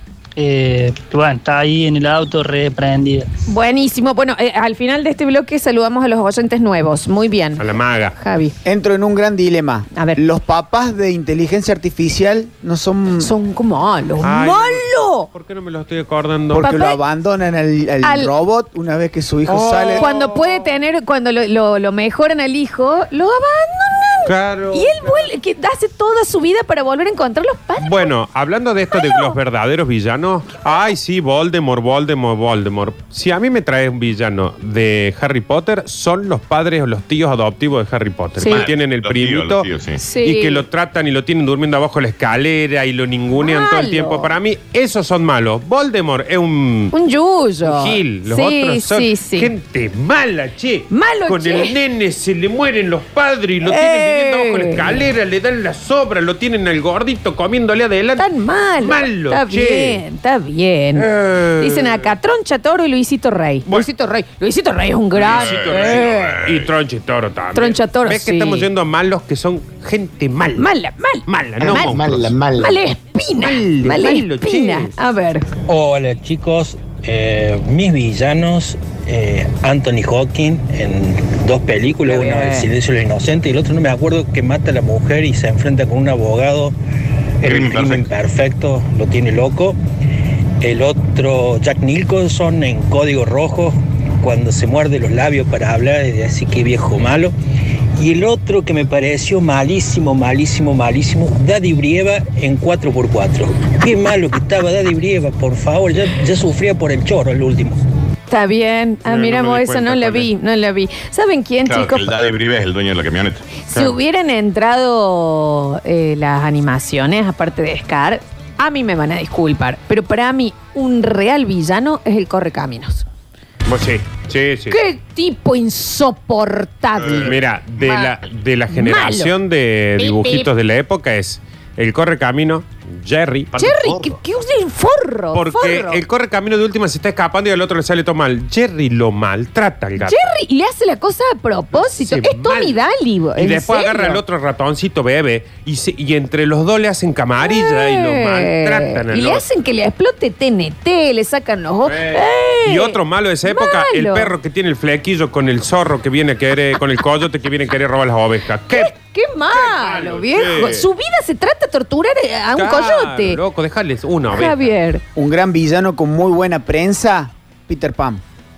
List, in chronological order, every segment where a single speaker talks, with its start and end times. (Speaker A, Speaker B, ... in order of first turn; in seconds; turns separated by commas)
Speaker A: 0.4-3.3, Speaker B: 3.5-8.6, Speaker C: 7.6-8.2, Speaker D: 8.6-13.3, Speaker B: 9.9-10.2, Speaker B: 13.2-15.3, Speaker C: 14.2-16.7, Speaker D: 16.5-20.1, Speaker B: 16.6-17.0, Speaker B: 18.0-18.3, Speaker C: 19.4-20.7, Speaker B: 19.9-28.1, Speaker C: 24.2-25.3, Speaker C: 27.8-46.9, Speaker B: 28.9-29.4, Speaker B: 38.4-38.7, Speaker E: 38.4-40.0, Speaker B: 40.0-40.6, Speaker B: 43.4-44.3, Speaker B: 46.9-49.5, Speaker C: 47.6-58.3, Speaker B: 50.9-51.8, Speaker B: 53.6-55.0, Speaker B: 58.2-66.4, Speaker C: 58.8-60.0, Speaker C: 60.9-62.1, Speaker C: 65.1-70.7, Speaker E: 65.2-66.7, Speaker B: 67.5-68.7, Speaker B: 70.6-72.0, Speaker C: 71.2-72.4, Speaker E: 71.6-72.8, Speaker B: 72.5-75.5, Speaker C: 73.4-75.0, Speaker F: 75.7-86.8, Speaker B: 82.0-82.7, Speaker F: 87.4-89.8, Speaker E: 87.4-88.1, Speaker F: 90.6-97.3, Speaker F: 98.0-107.8, Speaker B: 108.3-112.1, Speaker C: 109.0-110.3, Speaker E: 111.7-113.5, Speaker B: 113.7-123.0, Speaker C: 113.7-114.0, Speaker C: 123.7-124.8, Speaker B: 124.7-128.1, Speaker E: 127.0-127.4, Speaker C: 127.1-133.5, Speaker B: 128.7-129.3, Speaker B: 130.0-130.5, Speaker E: 133.5-134.2, Speaker B: 133.6-136.0, Speaker C: 135.3-140.2, Speaker B: 140.0-144.2, Speaker C: 141.7-142.8, Speaker C: 143.3-149.4, Speaker B: 147.4-154.3, Speaker C: 151.8-158.9, Speaker B: 158.7-163.4, Speaker C: 159.5-160.9, Speaker C: 162.6-164.7, Speaker B: 164.3-165.0, Speaker D: 165.1-168.2